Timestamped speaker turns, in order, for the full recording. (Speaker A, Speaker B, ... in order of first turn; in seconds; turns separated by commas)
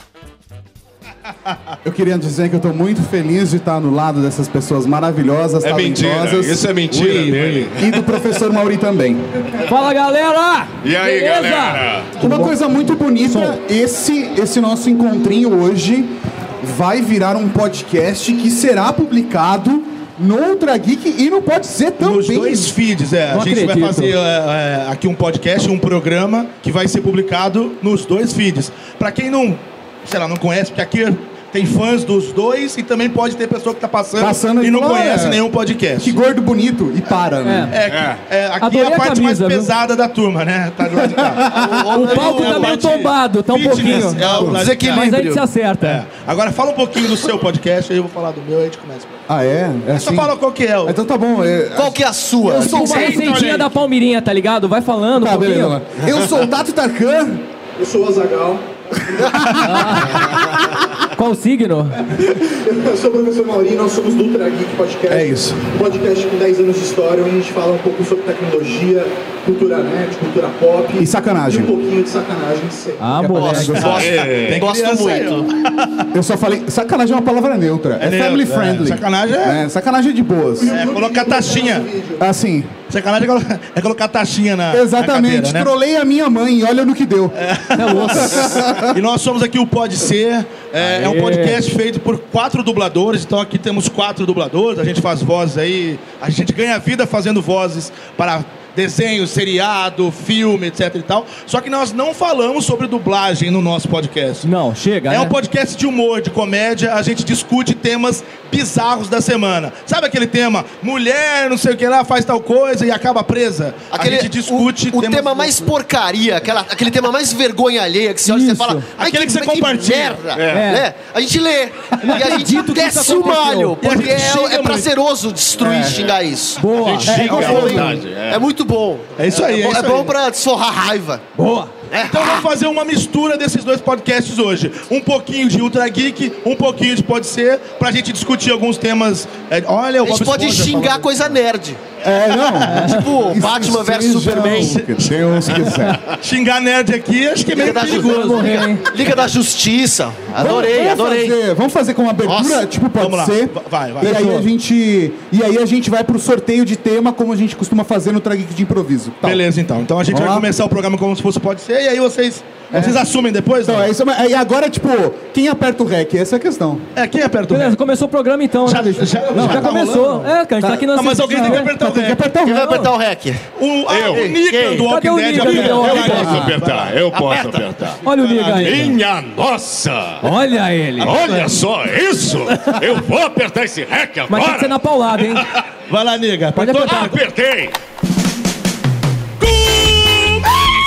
Speaker A: 1.8-6.8, Speaker B: 5.6-8.2, Speaker C: 6.9-7.7, Speaker A: 7.8-9.3, Speaker D: 9.7-12.6, Speaker B: 10.8-12.2, Speaker A: 12.2-22.7, Speaker D: 13.2-13.6, Speaker C: 22.0-36.3, Speaker D: 23.3-24.2, Speaker A: 34.2-35.4, Speaker A: 36.0-37.7, Speaker D: 37.4-37.7, Speaker C: 37.7-45.1, Speaker B: 37.9-38.2, Speaker D: 38.6-39.7, Speaker A: 41.0-41.7, Speaker E: 41.5-43.1, Speaker D: 42.0-46.0, Speaker E: 43.8-45.5, Speaker C: 45.8-49.2, Speaker A: 49.3-52.8, Speaker C: 49.9-51.0, Speaker E: 51.8-53.6, Speaker D: 52.5-55.8, Speaker C: 52.8-53.7, Speaker A: 55.2-57.4, Speaker F: 57.8-58.6, Speaker A: 59.3-60.0, Speaker D: 59.6-60.4, Speaker D: 61.1-62.0, Speaker F: 62.1-73.2, Speaker A: 65.1-65.5, Speaker A: 71.0-71.7, Speaker D: 73.0-74.1, Speaker A: 73.2-74.1, Speaker E: 73.3-75.5, Speaker C: 73.8-76.0, Speaker B: 73.9-74.7, Speaker A: 76.1-80.7, Speaker C: 78.0-79.6, Speaker F: 80.6-82.3, Speaker C: 80.7-81.9, Speaker A: 82.2-82.7, Speaker C: 82.9-85.7, Speaker A: 84.7-88.9, Speaker C: 87.3-104.5, Speaker D: 87.8-88.7, Speaker D: 90.8-91.6, Speaker D: 104.4-105.3, Speaker C: 105.1-115.7, Speaker E: 113.9-131.2, Speaker D: 118.2-118.9, Speaker C: 119.0-120.2, Speaker B: 120.4-120.7, Speaker D: 120.5-120.9, Speaker D: 122.0-123.7, Speaker C: 123.8-124.9, Speaker A: 125.6-126.0, Speaker B: 125.8-126.2, Speaker D: 126.6-127.8, Speaker B: 126.7-128.4, Speaker A: 127.1-127.8, Speaker C: 129.2-130.2, Speaker D: 131.4-131.7, Speaker E: 131.9-132.5, Speaker C: 132.0-141.2, Speaker E: 140.0-141.8, Speaker A: 142.0-146.0, Speaker E: 142.7-144.8, Speaker D: 142.7-143.1, Speaker C: 144.2-148.8, Speaker B: 145.5-145.8, Speaker E: 147.5-151.4, Speaker D: 147.7-148.8, Speaker A: 150.4-159.4, Speaker E: 152.2-152.6, Speaker C: 153.0-154.5, Speaker D: 154.1-154.3, Speaker C: 159.2-163.9, Speaker A: 160.1-160.5, Speaker A: 162.7-163.0, Speaker A: 163.6-166.8, Speaker C: 166.9-167.8, Speaker D: 167.5-171.8, Speaker C: 168.6-170.1, Speaker A: 169.3-172.9, Speaker C: 170.9-172.2, Speaker E: 172.4-173.4, Speaker C: 173.6-177.0, Speaker B: 173.9-174.3, Speaker E: 174.0-174.9, Speaker D: 174.9-176.5, Speaker B: 175.4-178.0, Speaker A: 175.5-176.6, Speaker E: 177.1-177.7, Speaker D: 178.0-179.0, Speaker C: 178.1-178.9, Speaker B: 178.6-180.2, Speaker D: 180.2-181.4, Speaker B: 181.0-185.5, Speaker E: 181.0-181.5, Speaker D: 182.5-182.8, Speaker D: 184.3-185.4, Speaker C: 185.9-187.2, Speaker D: 186.6-187.2, Speaker B: 186.9-187.7, Speaker C: 189.4-190.4